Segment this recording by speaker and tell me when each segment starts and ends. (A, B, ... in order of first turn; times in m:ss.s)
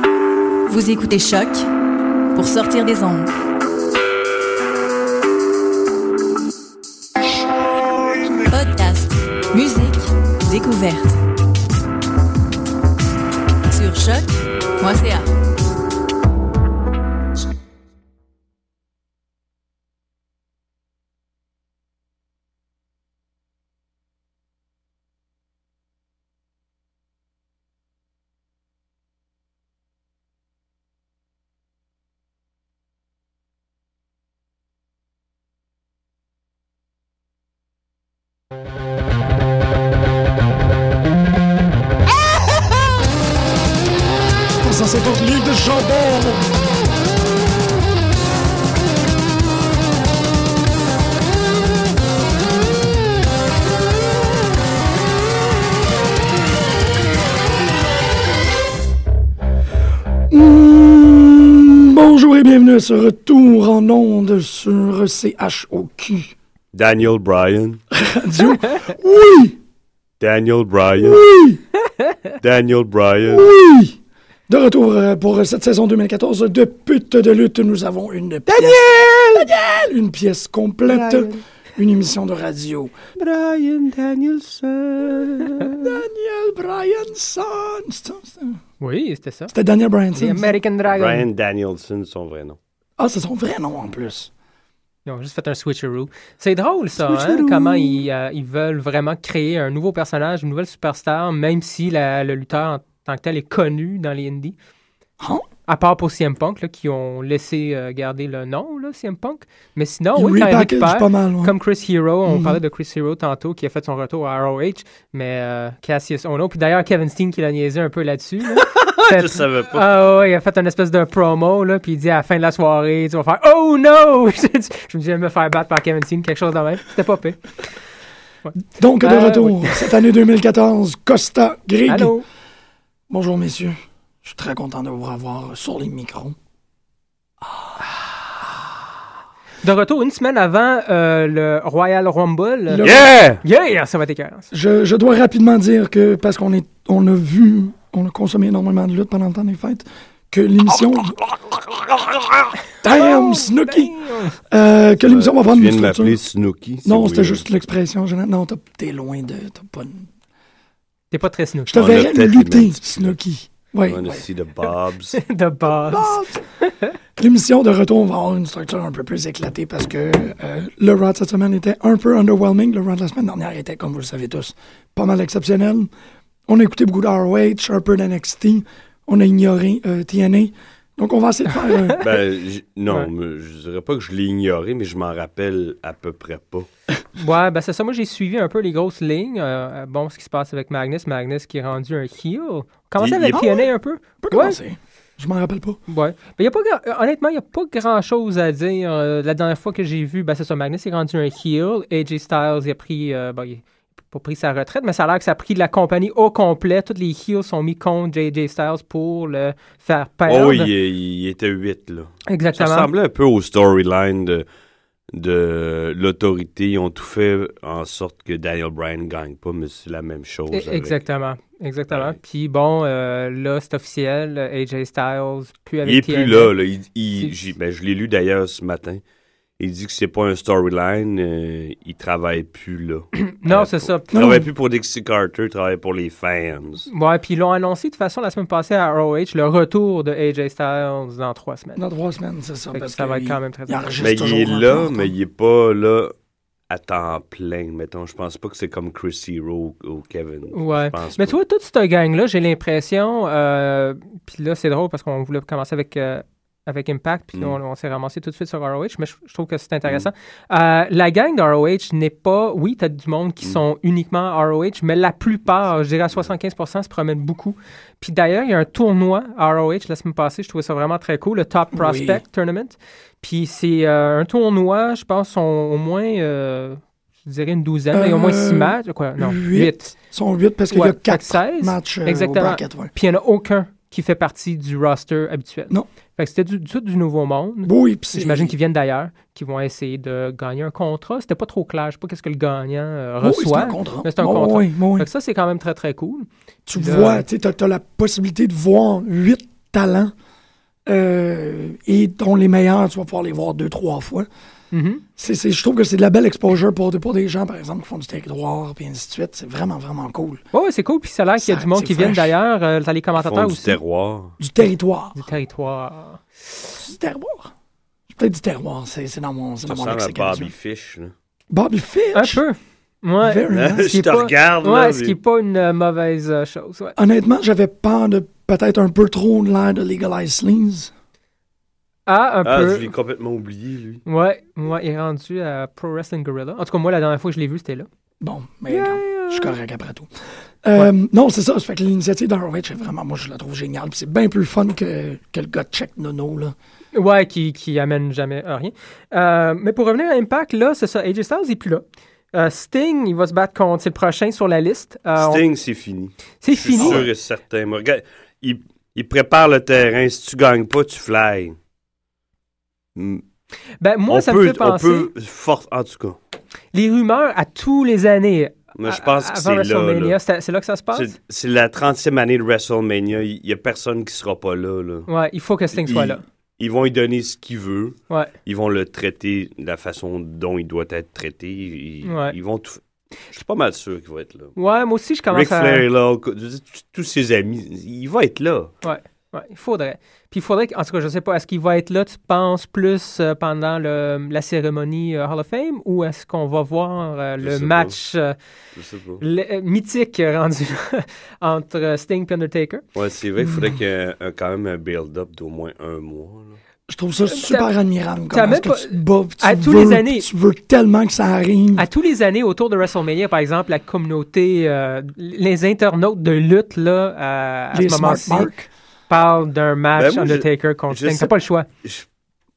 0:00.7-0:01.7 A
0:02.3-0:03.3 A
0:08.4-0:11.2 A
0:13.7-0:15.3 A
0:44.6-0:46.5 B
1:00.3-1:06.4 B
1:06.7-1:07.8 C
1:07.9-1:09.6 B
1:10.2-1:11.2 C
1:11.0-1:11.6 B
1:12.4-1:13.5 C
1:13.3-1:23.0 B
1:18.5-1:19.8 C
1:20.9-1:21.4 C
1:23.2-1:26.0 C
1:25.7-1:28.6 B
1:28.8-1:29.5 D
1:29.5-1:30.6 B
1:30.2-1:31.3 D
1:30.9-1:32.6 C
1:33.0-1:34.3 B
1:35.1-1:44.6 D
1:37.0-1:38.0 C
1:45.2-1:45.4 B
1:45.7-2:07.5 D
1:50.2-1:51.6 B
1:52.3-1:52.6 B
1:58.6-1:59.9 C
2:08.4-2:09.9 D
2:08.8-2:12.1 B
2:11.9-2:12.2 D
2:13.1-2:16.4 B
2:17.4-2:17.8 B
2:19.6-2:22.8 D
2:22.7-2:23.1 B
2:22.8-2:23.4 C
2:23.4-2:24.5 D
2:24.5-2:31.2 B
2:31.8-2:32.1 C
2:32.8-2:36.2 B
2:32.9-2:34.4 D
2:35.0-2:37.5 C
2:36.8-2:40.1 B
2:41.1-2:41.8 D
2:41.7-2:44.2 B
2:41.7-2:43.1 C
2:43.8-2:45.2 C
2:45.1-2:46.9 D
2:45.8-2:46.4 B
2:47.2-2:55.9 B
2:56.5-3:02.0 B
3:02.0-3:06.7 C
3:07.2-3:14.6 D
3:13.0-3:13.7 C
3:14.2-3:15.8 B
3:15.9-3:30.7 D
3:30.3-3:34.4 C
3:32.3-3:32.9 D
3:35.1-3:41.0 C
3:40.5-3:46.5 D
3:41.9-3:42.2 C
3:45.8-3:49.0 C
3:49.6-3:56.9 C
3:53.1-3:54.2 D
3:54.1-3:54.5 B
3:56.9-4:01.8 D
4:01.8-4:05.1 B
4:02.7-4:04.0 D
4:04.0-4:06.1 C
4:06.7-4:11.4 C
4:10.5-4:39.9 D
4:31.7-4:32.2 B
4:37.9-4:42.9 B
4:40.7-4:57.3 D
4:47.6-4:48.5 B
4:53.2-4:55.1 B
4:56.7-5:00.1 B
5:00.9-5:04.3 B
5:04.7-5:05.0 D
5:05.2-5:10.4 B
5:10.5-5:13.8 D
5:11.4-5:12.3 B
5:13.2-5:14.4 C
5:14.4-5:15.2 B
5:15.2-5:16.8 D
5:16.8-5:17.5 B
5:18.1-5:20.5 B
5:19.7-5:21.1 C
5:21.5-5:22.4 B
5:22.1-5:27.0 D
5:23.2-5:23.9 B
5:23.5-5:25.2 C
5:27.0-5:30.9 B
5:32.1-5:32.9 D
5:32.4-5:34.0 C
5:34.1-5:37.9 D
5:38.2-5:40.1 B
5:38.7-5:39.5 D
5:40.6-5:46.6 B
5:46.9-5:55.4 D
5:55.2-6:01.6 C
5:56.4-5:57.1 D
5:56.8-5:57.0 B
6:03.0-6:03.2 C
6:03.8-6:05.1 D
6:04.1-6:06.2 C
6:06.7-6:11.2 D
6:08.8-6:10.2 C
6:10.9-6:15.1 C
6:15.1-6:16.2 D
6:15.7-6:22.8 C
6:22.0-6:22.4 D
6:23.3-6:24.6 C
6:24.6-6:25.9 D
6:25.3-6:28.7 C
6:28.8-6:38.4 D
6:37.4-6:38.0 C
6:38.8-6:39.2 C
6:39.2-6:42.8 D
6:43.0-6:46.6 C
6:46.9-6:51.9 B
6:47.3-6:47.7 D
6:48.3-6:50.3 D
6:51.8-6:58.5 D
6:57.7-6:58.7 B
6:59.1-7:01.7 D
7:00.0-7:01.3 C